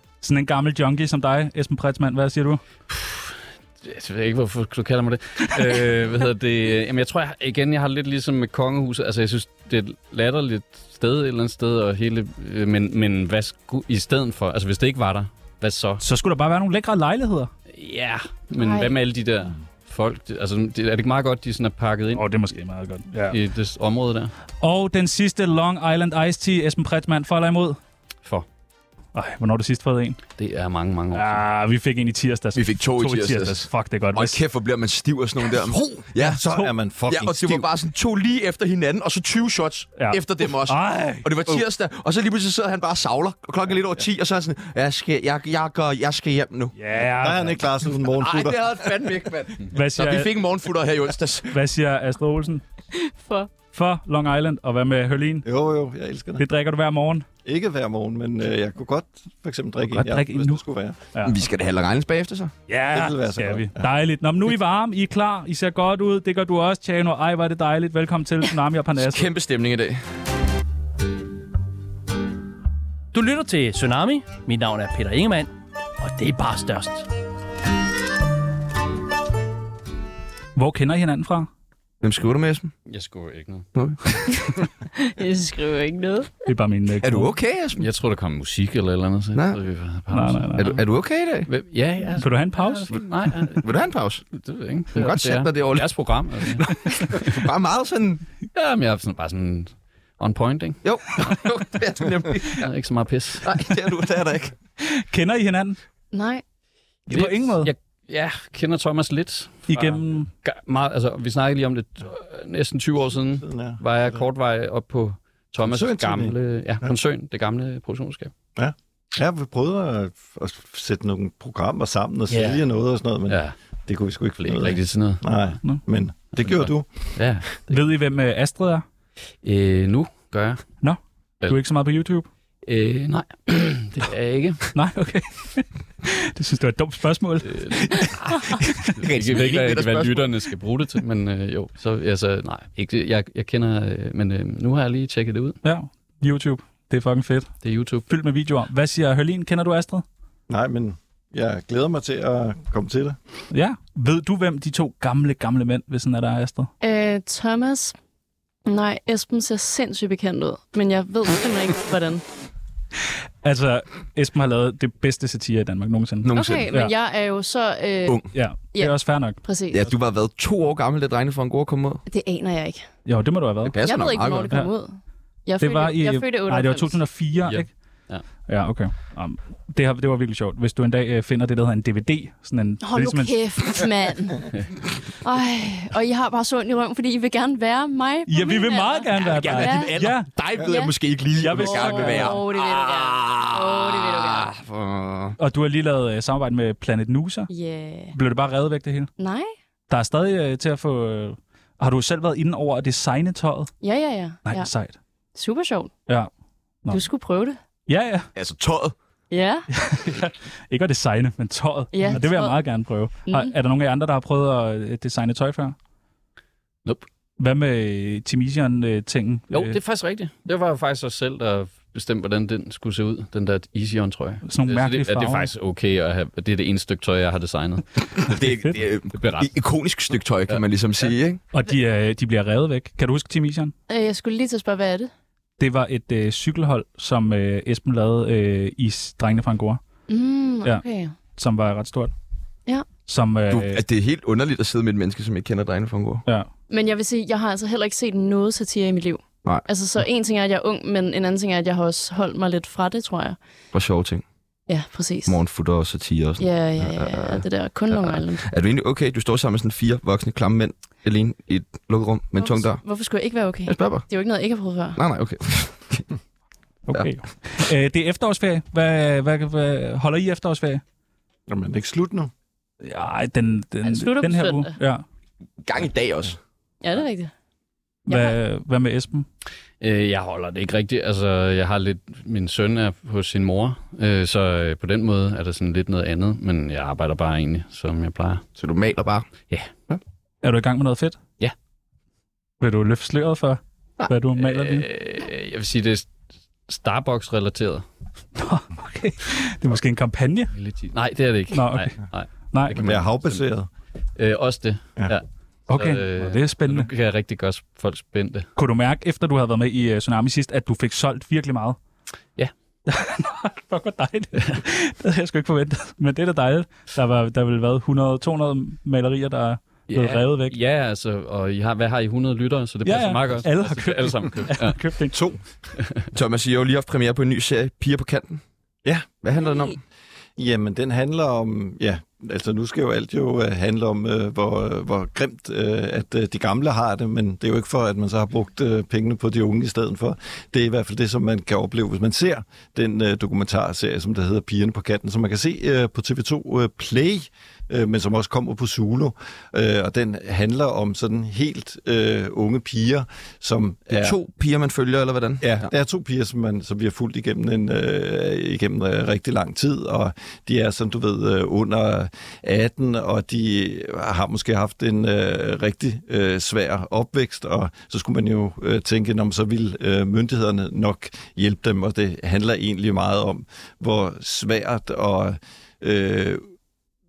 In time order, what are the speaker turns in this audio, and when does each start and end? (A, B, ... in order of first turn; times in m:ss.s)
0:00.2-0:02.6 A
0:02.9-0:16.0 B
0:16.0-0:17.5 A
0:17.7-0:22.3 B
0:18.6-0:18.9 C
0:22.1-0:23.4 A
0:23.3-0:24.3 B
0:24.6-0:27.8 A
0:29.1-0:30.2 A
0:30.4-0:31.4 B
0:31.1-0:34.4 A
0:32.5-0:46.7 D
0:35.7-0:37.6 E
0:36.2-0:36.7 A
0:40.0-0:41.6 A
0:46.8-0:47.6 A
0:47.2-0:48.6 E
0:48.1-0:51.5 D
0:49.7-0:50.3 A
0:51.5-0:52.6 A
0:52.9-0:53.5 C
0:53.7-0:55.4 A
0:55.4-0:56.4 E
0:56.4-0:57.2 A
0:57.4-1:01.0 E
0:59.8-1:01.4 A
1:01.2-1:02.5 D
1:02.7-1:09.3 A
1:02.9-1:03.9 E
1:09.0-1:10.0 D
1:13.1-1:17.1 F
1:20.6-1:21.5 A
1:22.0-1:22.7 D
1:22.9-1:23.7 B
1:23.7-1:24.4 D
1:25.0-1:26.3 C
1:26.4-1:27.3 A
1:27.0-1:27.9 D
1:27.8-1:30.8 B
1:30.1-1:30.7 A
1:30.6-1:31.5 D
1:31.5-1:33.6 B
1:32.2-1:32.9 A
1:33.6-1:34.2 D
1:34.3-1:37.4 B
1:34.9-1:35.9 D
1:37.1-1:38.2 D
1:38.5-1:40.8 B
1:40.8-1:42.7 D
1:42.6-1:43.5 B
1:43.4-1:44.5 D
1:44.8-1:45.8 A
1:46.1-1:46.4 C
1:47.1-1:47.7 A
1:47.1-1:58.3 B
1:49.7-1:50.3 A
1:53.4-1:54.2 E
1:55.6-1:56.9 E
1:58.6-2:06.9 E
2:02.3-2:02.6 B
2:03.3-2:03.5 B
2:04.4-2:05.2 B
2:06.4-2:07.7 B
2:07.7-2:08.8 A
2:09.4-2:10.6 B
2:10.8-2:12.2 A
2:12.6-2:14.7 B
2:14.7-2:18.9 A
2:17.4-2:18.1 B
2:18.9-2:25.6 B
2:19.0-2:20.5 D
2:25.6-2:27.5 A
2:27.6-2:28.1 B
2:28.1-2:30.0 A
2:30.5-2:33.2 E
2:33.5-2:36.7 A
2:36.8-2:37.9 C
2:38.6-2:42.2 C
2:43.4-2:46.9 A
2:46.2-2:46.7 D
2:46.3-2:49.8 C
2:48.3-2:49.4 A
2:49.7-2:52.0 D
2:52.1-2:52.8 C
2:53.0-2:54.0 A
2:53.6-2:54.5 D
2:53.8-2:57.0 C
2:55.6-2:57.7 A
2:57.4-2:58.2 B
2:58.5-3:03.4 A
3:02.8-3:04.5 C
3:05.2-3:09.9 C
3:08.3-3:10.3 A
3:09.2-3:15.4 D
3:10.6-3:11.0 C
3:11.4-3:12.4 A
3:11.5-3:14.5 C
3:15.4-3:17.5 A
3:17.5-3:18.1 C
3:18.1-3:19.1 A
3:19.2-3:19.5 C
3:19.9-3:23.7 A
3:23.8-3:24.7 C
3:24.4-3:25.0 A
3:25.3-3:25.9 C
3:26.9-3:27.6 C
3:27.9-3:28.3 A
3:28.3-3:28.9 D
3:29.3-3:29.7 C
3:29.7-3:35.8 A
3:31.9-3:32.6 C
3:33.2-3:33.5 C
3:37.4-3:39.8 A
3:39.5-3:48.4 B
3:44.4-3:45.5 A
3:48.2-3:51.4 D
3:49.1-3:49.5 B
3:50.5-3:51.1 B
3:51.5-3:53.7 A
3:53.9-3:55.1 C
3:55.6-3:59.8 A
4:00.1-4:01.1 C
4:01.3-4:02.1 A
4:03.0-4:03.8 A
4:03.5-4:06.2 D
4:06.7-4:13.4 C
4:13.7-4:14.2 D
4:14.7-4:15.4 C
4:15.2-4:22.8 D
4:16.4-4:18.4 C
4:22.4-4:25.0 C
4:23.7-4:24.1 D
4:25.0-4:26.1 D
4:26.9-4:30.8 A
4:31.5-4:32.3 E
4:32.8-4:35.0 A
4:33.8-4:34.8 C
4:35.6-4:36.4 D
4:36.8-4:37.3 C
4:38.1-4:38.4 C
4:38.1-4:39.2 A
4:39.8-4:48.4 B
4:48.6-4:49.3 D
4:50.4-4:51.2 A
4:52.6-4:54.8 A
4:54.4-4:56.1 B
4:56.7-4:57.8 B
4:58.4-5:00.5 A
5:00.5-5:03.4 B
5:01.5-5:01.9 A
5:02.5-5:02.8 A
5:02.8-5:03.7 E
5:04.2-5:08.5 B
5:05.7-5:06.9 A
5:08.6-5:11.8 A
5:12.9-5:20.6 A
5:19.9-5:24.8 B
5:22.8-5:25.2 A
5:26.1-5:28.4 D
5:29.2-5:29.8 D
5:30.4-5:54.2 E
5:53.9-5:55.7 D
5:55.4-6:16.4 E